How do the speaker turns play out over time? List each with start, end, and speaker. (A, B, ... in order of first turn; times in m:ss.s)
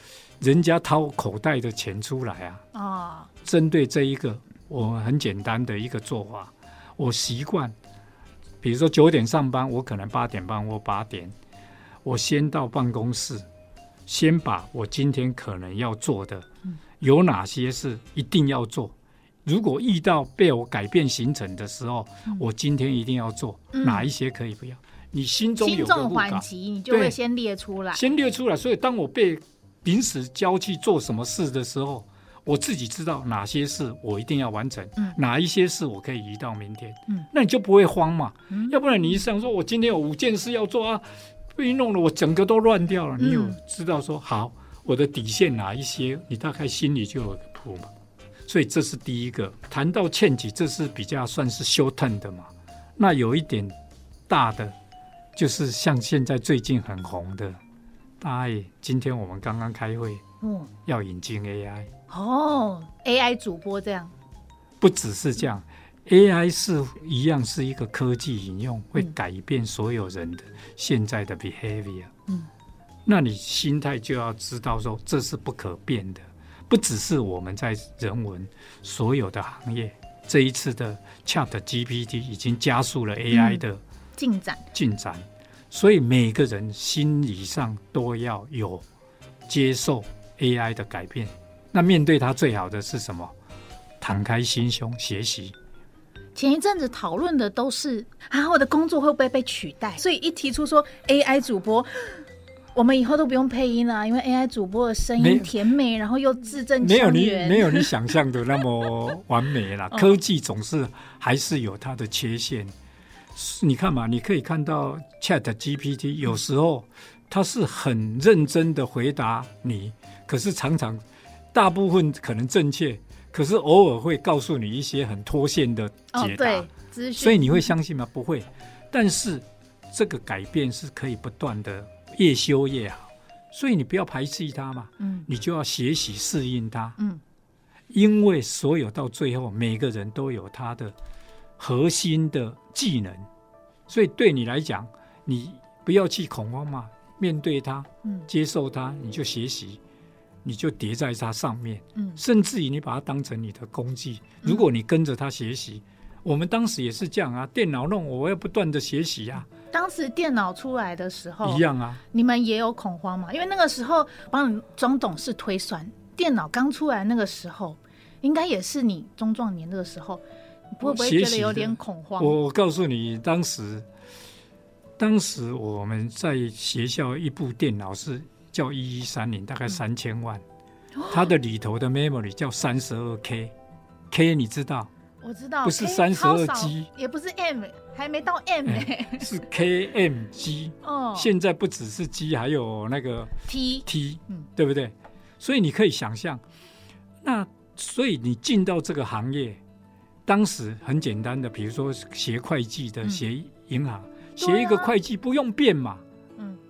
0:00.4-0:02.6 A
0:02.7-0:03.3 B
0:03.4-0:07.7 A
0:08.6-0:11.3 A
0:12.0-0:13.4 A
0:14.1-0:16.5 A
0:17.0-0:18.9 A
0:19.4-0:27.2 A
0:23.7-0:24.1 B
0:25.6-0:28.0 B
0:27.9-0:47.9 A
0:38.5-0:38.8 B
0:43.2-0:43.6 B
0:48.5-0:53.7 A
0:54.3-0:54.7 A
0:55.4-0:57.6 A
0:58.2-1:00.2 A
1:00.4-1:00.7 B
1:00.8-1:01.9 A
1:02.1-1:04.1 B
1:04.8-1:12.1 A
1:13.0-1:23.8 A
1:23.3-1:23.6 B
1:24.2-1:24.6 B
1:24.7-1:28.8 A
1:29.5-1:33.3 A
1:34.0-1:35.5 A
1:36.3-1:47.9 B
1:45.2-1:45.5 A
1:46.8-1:52.7 A
1:49.9-1:50.2 B
1:53.3-2:17.0 A
2:06.1-2:07.7 B
2:15.0-2:15.3 B
2:17.9-2:20.9 A
2:21.6-2:23.3 A
2:23.9-2:29.8 A
2:28.0-2:28.3 B
2:30.4-2:39.5 A
2:32.0-2:32.2 B
2:39.7-2:52.4 B
2:41.4-2:42.0 A
2:50.8-2:53.8 A
2:55.0-3:00.4 A
3:01.0-3:01.3 B
3:01.1-3:03.5 A
3:04.1-3:04.9 A
3:05.2-3:09.3 B
3:05.6-3:06.9 A
3:08.6-3:16.4 A
3:10.8-3:11.3 B
3:13.5-3:14.4 B
3:17.2-3:19.6 A
3:20.2-3:26.0 A
3:24.4-3:24.9 B